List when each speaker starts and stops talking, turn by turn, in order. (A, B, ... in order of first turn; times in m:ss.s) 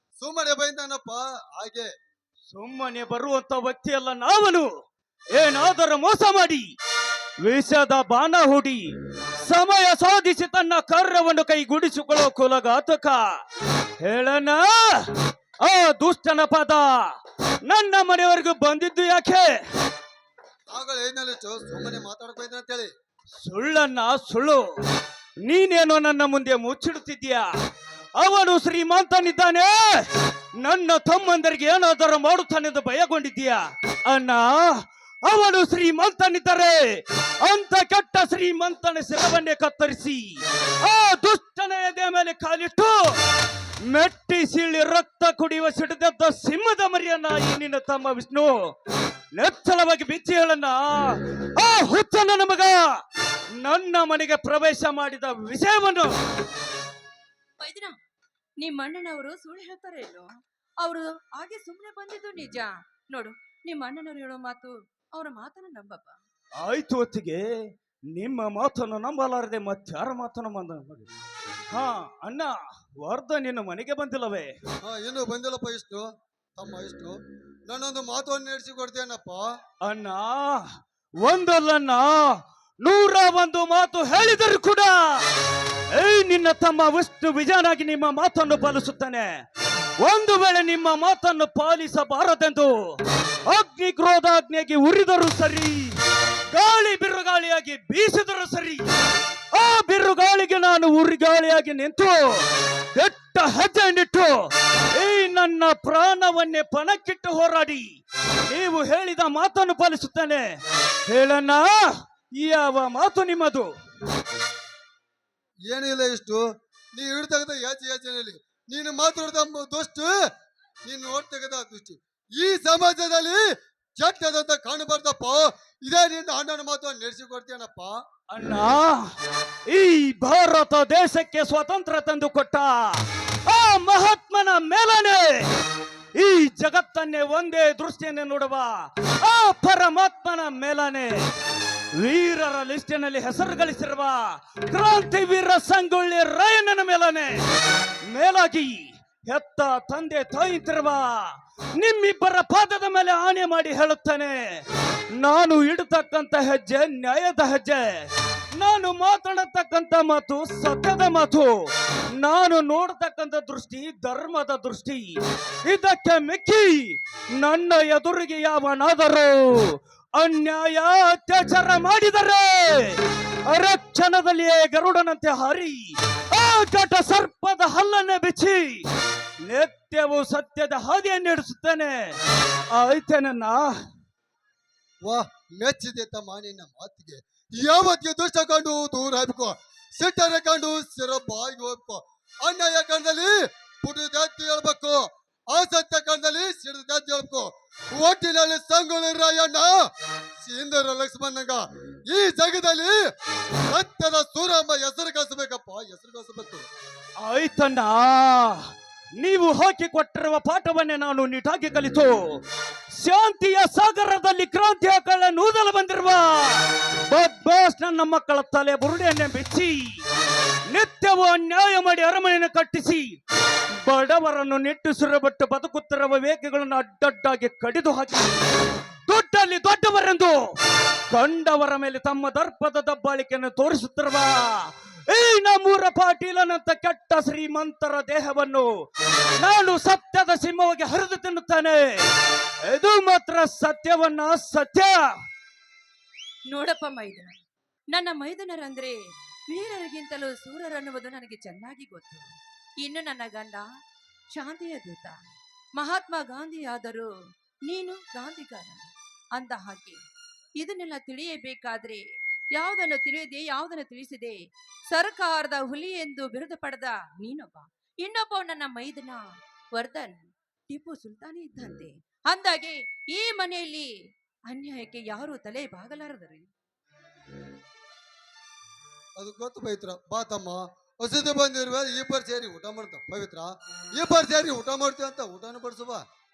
0:00.2-0:01.9 A
0:02.5-0:04.7 B
0:05.3-0:06.7 B
0:07.4-0:13.4 B
0:14.0-0:19.6 B
0:20.7-0:22.9 A
0:23.4-0:24.7 B
0:25.4-0:27.5 B
0:28.2-0:43.2 B
0:43.8-0:48.7 B
0:49.3-0:52.9 B
0:53.6-0:56.2 B
0:57.6-0:57.9 C
0:58.6-1:00.3 C
1:00.8-1:06.2 C
1:06.6-1:11.1 B
1:11.7-1:14.5 B
1:14.8-1:17.2 A
1:17.7-1:19.5 A
1:19.8-1:20.6 B
1:21.2-1:25.2 B
1:25.9-1:29.4 B
1:30.0-1:36.0 B
1:36.5-1:38.9 B
1:39.5-1:53.7 B
1:55.7-1:56.4 A
1:56.9-2:00.1 A
2:00.8-2:03.4 A
2:04.0-2:08.0 A
2:08.3-2:09.0 B
2:09.7-2:15.5 B
2:16.2-2:21.3 B
2:22.0-2:27.4 B
2:28.0-2:58.8 B
2:59.4-3:02.2 B
3:02.7-3:03.8 B
3:05.0-3:19.7 A
3:20.4-3:23.0 A
3:23.7-3:26.7 A
3:27.2-3:32.4 B
3:32.9-3:40.0 B
3:40.7-3:43.2 B
3:43.8-3:48.4 B
3:49.1-3:50.6 B
3:51.1-3:58.7 B
3:59.4-4:02.1 B
4:02.7-4:05.1 B
4:06.5-4:07.3 C
4:07.9-4:09.0 C
4:09.5-4:12.3 C
4:12.8-4:13.6 C
4:14.3-4:15.1 C
4:15.8-4:17.1 C
4:17.7-4:20.0 C
4:20.6-4:22.0 C
4:22.6-4:24.4 C
4:24.9-4:29.2 C
4:29.8-4:33.9 C
4:34.5-4:36.4 C
4:39.2-4:46.0 A